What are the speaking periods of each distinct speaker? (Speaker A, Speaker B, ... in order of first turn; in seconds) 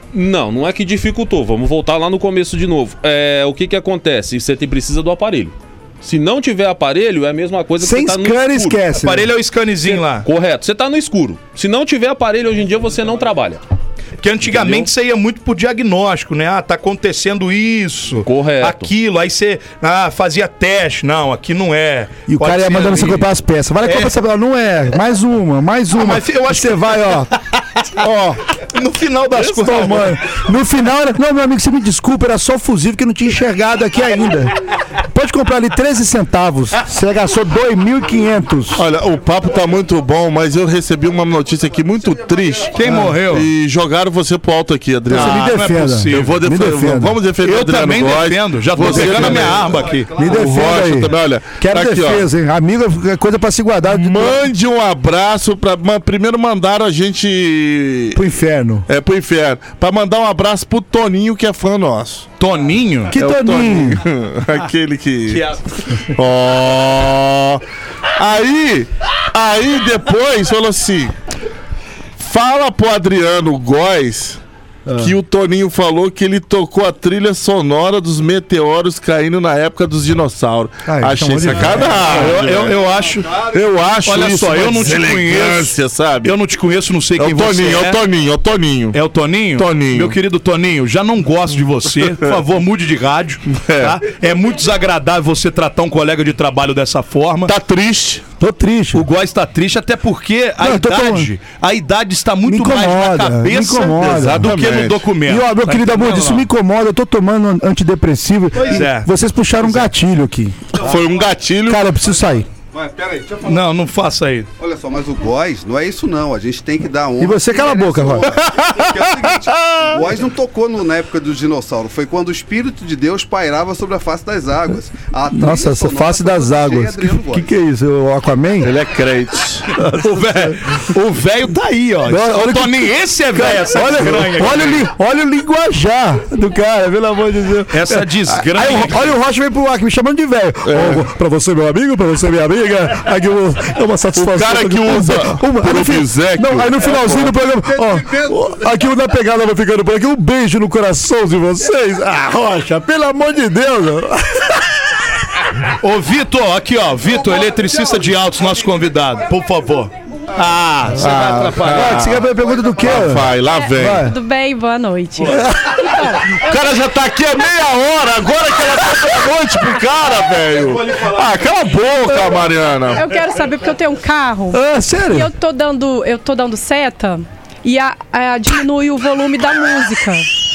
Speaker A: 0.1-8.8, 9.8-13.6, 14.5-14.9, 18.2-18.9
Speaker B: 7.8-9.3, 22.3-27.3, 28.0-28.4, 29.3-34.5, 35.1-38.8, 42.8-43.1, 45.1-47.2, 48.8-49.5, 50.1-54.4, 58.1-58.9, 63.1-64.0, 74.9-75.1, 80.8-82.3, 98.4-99.0, 100.6-101.3, 102.4-104.5, 105.2-110.6, 111.6-112.5, 117.2-118.3, 125.3-128.7, 132.0-154.7, 161.0-164.1, 165.3-165.7, 174.5-175.3
Speaker C: 8.9-10.3, 14.2-23.3, 23.8-24.1, 25.9-27.8, 28.7-30.2, 42.7-43.5, 45.1-46.4, 47.4-50.3, 62.4-63.1, 65.3-66.1, 81.7-83.5, 84.0-88.0, 88.9-97.5, 98.9-106.5, 108.5-109.9, 113.4-114.5, 129.8-134.8, 137.7-139.1, 155.8-162.2, 170.6-171.4
Speaker D: 38.7-52.2, 53.9-58.2, 58.9-62.2, 63.1-65.4, 66.1-67.6, 68.2-71.1, 72.2-74.4, 74.9-82.8, 83.5-86.4, 87.2-89.0, 89.5-90.2, 93.5-94.0, 97.5-98.2, 104.0-105.1, 110.7-111.9, 118.5-120.0, 128.6-129.7, 140.7-141.0, 144.1-147.4, 161.1-162.2, 162.8-164.1, 166.3-173.1
Speaker E: 49.8-50.4, 83.2-83.7, 110.8-111.5, 112.0-113.7, 114.6-127.5, 147.8-148.4
Speaker F: 163.4-166.8, 172.9-180.3